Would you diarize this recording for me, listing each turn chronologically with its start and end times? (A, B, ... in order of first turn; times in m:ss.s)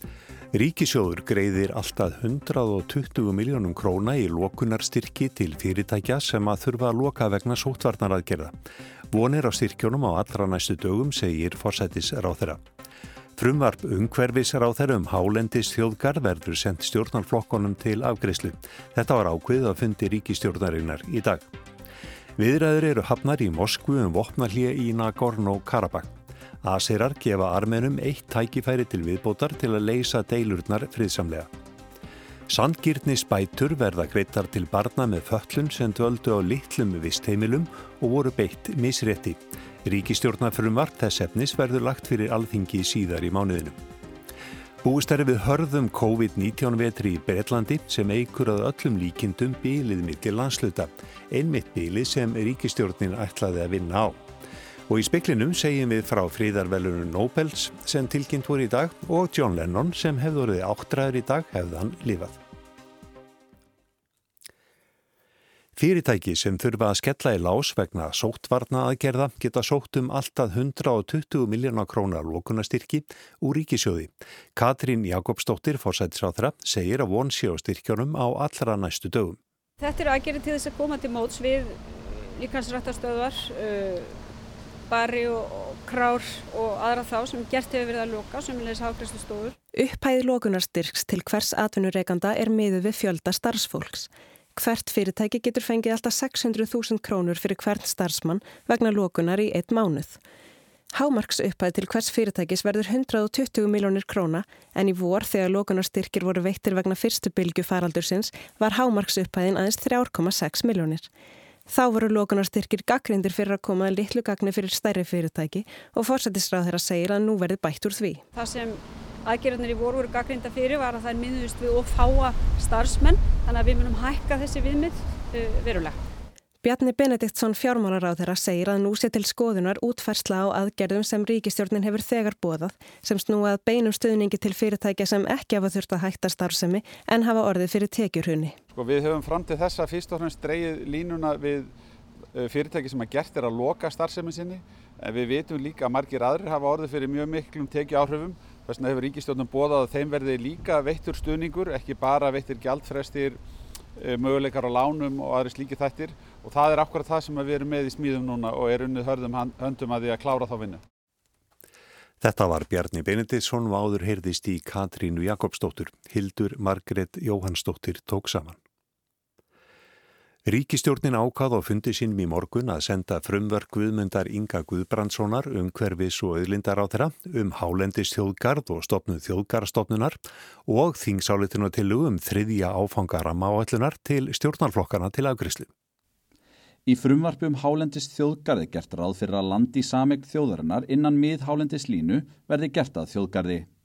0:00.5-0:08.6 A
0:09.1-0:12.6 A
0:13.4-0:21.5 A
0:22.4-0:31.5 A
0:32.5-0:43.8 A
0:44.8-0:54.2 A
0:54.9-1:02.4 A
1:05.8-1:19.4 A
1:19.8-1:24.2 B
1:24.9-1:29.6 B
1:29.7-1:40.2 C
1:40.9-1:51.1 C
1:51.7-1:58.2 C
1:58.3-2:06.0 B
2:06.6-2:18.6 C
2:18.7-2:21.8 D
2:22.3-2:33.4 D
2:34.0-2:40.8 D
2:42.2-2:48.6 A
2:50.4-3:05.7 A
3:06.9-3:13.7 E